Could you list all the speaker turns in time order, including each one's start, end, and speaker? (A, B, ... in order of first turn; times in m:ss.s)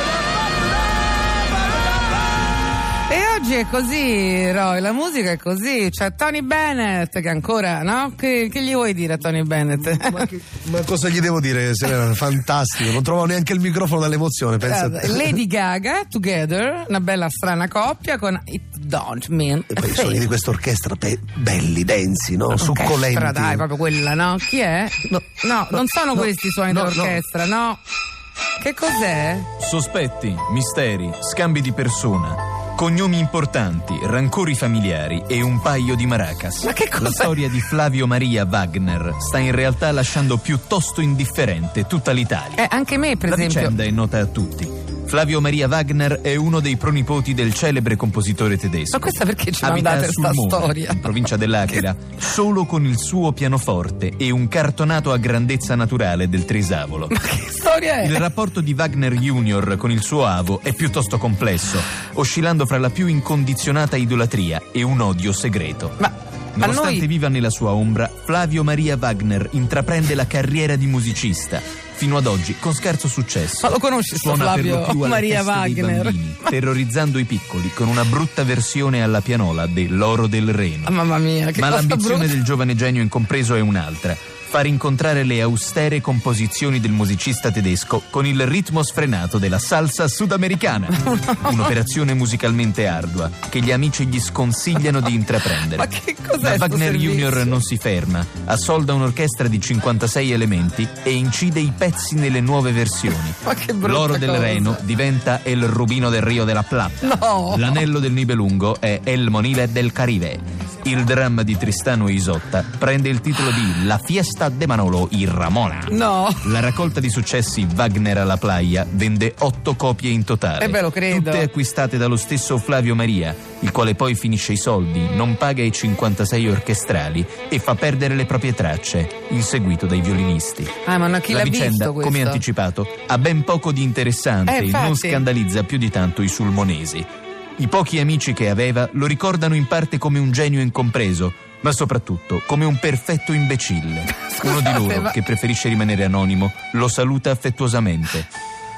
0:03.1-0:10.3 A
0:10.2-0:15.4 B
0:14.6-0:20.2 A
0:19.8-0:23.6 B
0:22.5-0:27.8 A
0:26.7-0:27.1 B
0:28.6-0:29.5 A
0:29.6-0:42.6 C
0:36.6-0:37.4 A
0:42.6-0:43.8 A
0:43.3-0:57.1 C
0:48.9-0:51.8 A
0:57.1-0:58.2 A
0:58.0-1:06.0 C
1:06.0-1:07.0 A
1:06.6-1:20.9 C
1:13.6-1:16.5 A
1:20.9-1:22.3 A
1:21.6-1:35.9 C
1:31.0-1:31.5 A
1:35.7-1:37.6 A
1:36.4-2:10.7 C
1:43.4-1:44.8 A
1:47.0-1:47.8 A
1:55.9-1:56.5 A
2:00.6-2:01.5 A
2:10.8-2:12.4 A
2:11.3-2:17.1 C
2:14.5-2:15.2 A
2:17.6-2:28.3 C
2:24.2-2:25.2 A